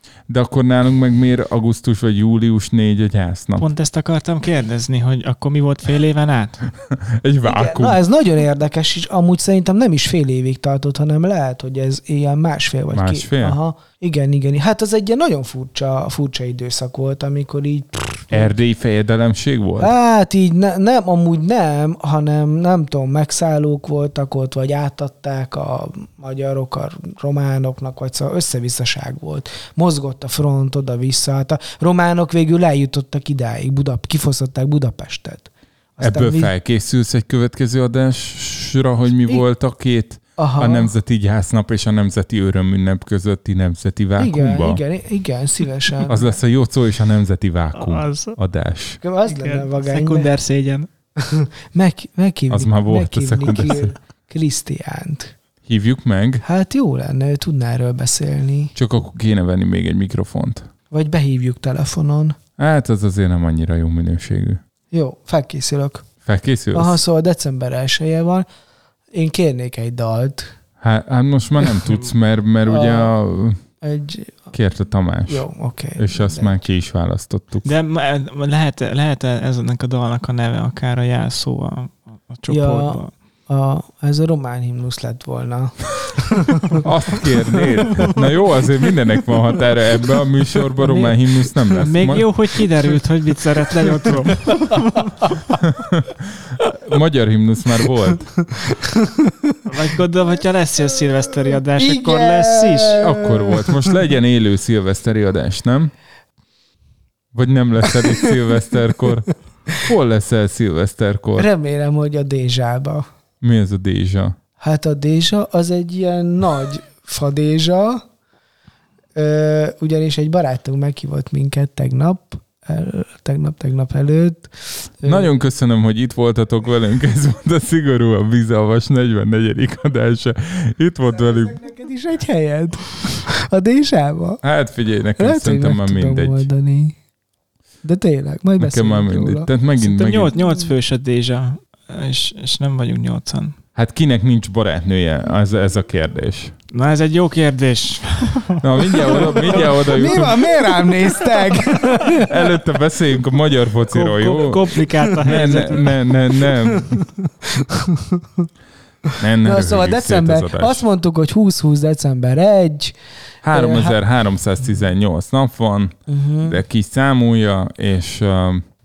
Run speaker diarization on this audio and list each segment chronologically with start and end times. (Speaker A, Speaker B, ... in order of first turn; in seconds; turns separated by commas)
Speaker A: 0.3-3.7, Speaker B: 3.6-6.7, Speaker A: 6.9-8.0, Speaker C: 7.4-18.6, Speaker A: 12.9-13.6, Speaker A: 18.3-19.9, Speaker C: 19.8-36.5, Speaker A: 36.0-44.8, Speaker C: 40.4-40.9, Speaker C: 44.2-46.2, Speaker A: 46.1-49.0, Speaker B: 47.8-48.4, Speaker C: 49.0-50.3, Speaker B: 49.3-50.9, Speaker C: 51.2-55.3, Speaker A: 52.5-53.9, Speaker A: 55.6-56.4, Speaker C: 56.4-58.7, Speaker A: 58.8-60.7, Speaker C: 60.9-62.4, Speaker A: 62.6-64.6, Speaker C: 64.9-66.1, Speaker A: 66.2-67.0, Speaker C: 66.7-68.5, Speaker C: 69.1-70.5, Speaker A: 70.8-73.6, Speaker C: 72.7-73.2, Speaker C: 73.8-74.5, Speaker A: 74.5-77.7, Speaker C: 75.3-76.6, Speaker B: 77.7-83.1, Speaker C: 82.5-86.7, Speaker A: 86.8-92.3, Speaker B: 90.8-95.2, Speaker A: 95.6-98.3, Speaker C: 98.8-99.5, Speaker B: 99.7-103.0, Speaker C: 101.5-104.0, Speaker A: 103.0-105.9, Speaker A: 107.3-111.5, Speaker C: 111.3-113.1, Speaker A: 113.4-114.3, Speaker C: 114.6-118.0, Speaker C: 119.1-125.3, Speaker A: 125.0-131.6, Speaker C: 131.1-134.4, Speaker A: 134.4-136.5, Speaker C: 135.2-136.9, Speaker C: 137.8-139.5, Speaker A: 138.6-140.3, Speaker B: 139.8-143.6, Speaker C: 140.4-140.7, Speaker A: 143.8-146.5, Speaker B: 146.7-149.7, Speaker A: 148.6-150.6, Speaker C: 149.3-152.3, Speaker A: 152.3-157.0, Speaker B: 153.9-156.0, Speaker C: 155.1-155.7, Speaker C: 156.7-158.5, Speaker A: 159.2-160.8, Speaker C: 159.4-163.0, Speaker A: 163.4-168.6, Speaker C: 163.5-164.0, Speaker C: 166.1-166.6